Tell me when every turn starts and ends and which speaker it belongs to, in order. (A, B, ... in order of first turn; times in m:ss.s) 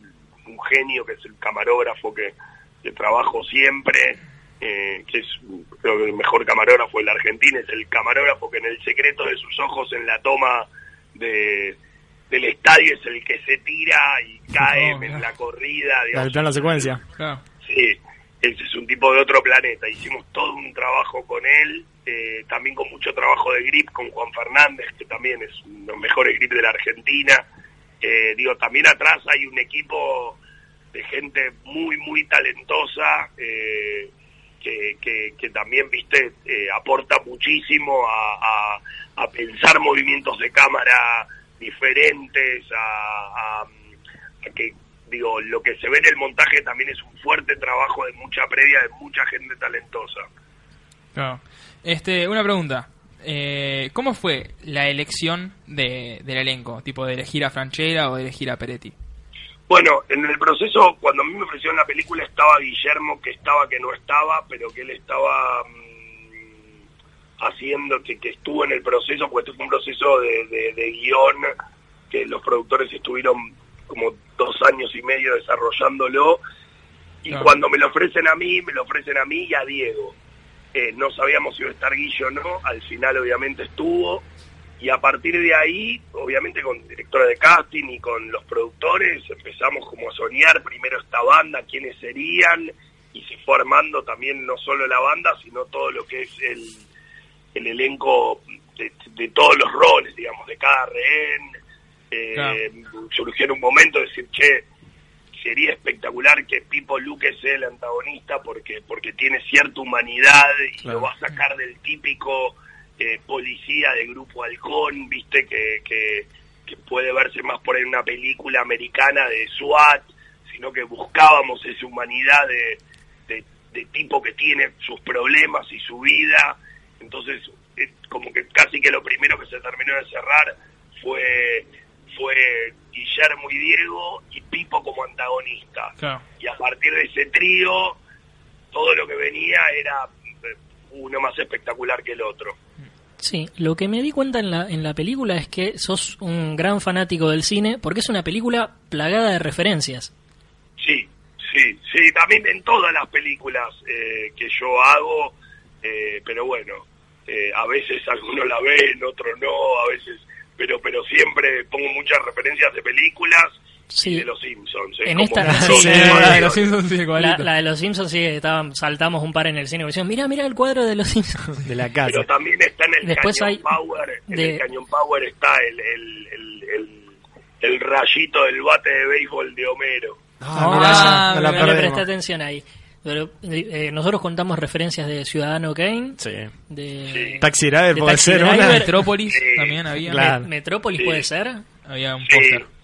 0:00.5-0:11.8 A
0:12.3-0:16.8 A
0:14.6-0:15.2 B
0:16.1-0:17.0 C
0:17.6-0:27.4 A
0:28.0-0:30.4 A
0:30.9-0:43.7 A
0:44.4-0:50.3 A
0:51.2-0:58.9 B
0:59.7-1:05.7 A
1:07.4-1:11.5 A
1:12.1-1:16.4 A
1:17.2-1:20.2 A
1:20.7-1:24.2 A
1:24.8-1:36.8 A
1:37.6-1:41.5 A
1:42.1-1:44.7 A
1:45.4-2:18.0 A
2:18.7-2:20.1 A
2:20.9-2:22.6 A
2:23.2-2:30.1 D
2:30.8-2:46.6 A
2:43.9-2:44.2 D
2:45.1-2:46.3 D
2:45.4-2:46.4 C
2:45.6-2:47.5 B
2:47.2-2:51.5 D
2:51.6-2:52.3 C
2:52.0-2:57.1 A
2:53.0-2:53.6 D
2:54.3-2:54.6 D
2:57.6-3:00.2 A
3:00.4-3:02.0 C
3:00.6-3:09.0 D
3:00.6-3:01.9 B
3:06.2-3:06.5 C
3:07.4-3:09.0 C
3:08.5-3:10.3 B
3:09.3-3:09.8 A
3:10.0-3:10.5 C
3:10.2-3:11.6 D
3:11.0-3:11.2 A
3:11.9-3:12.6 B
3:12.2-3:12.6 A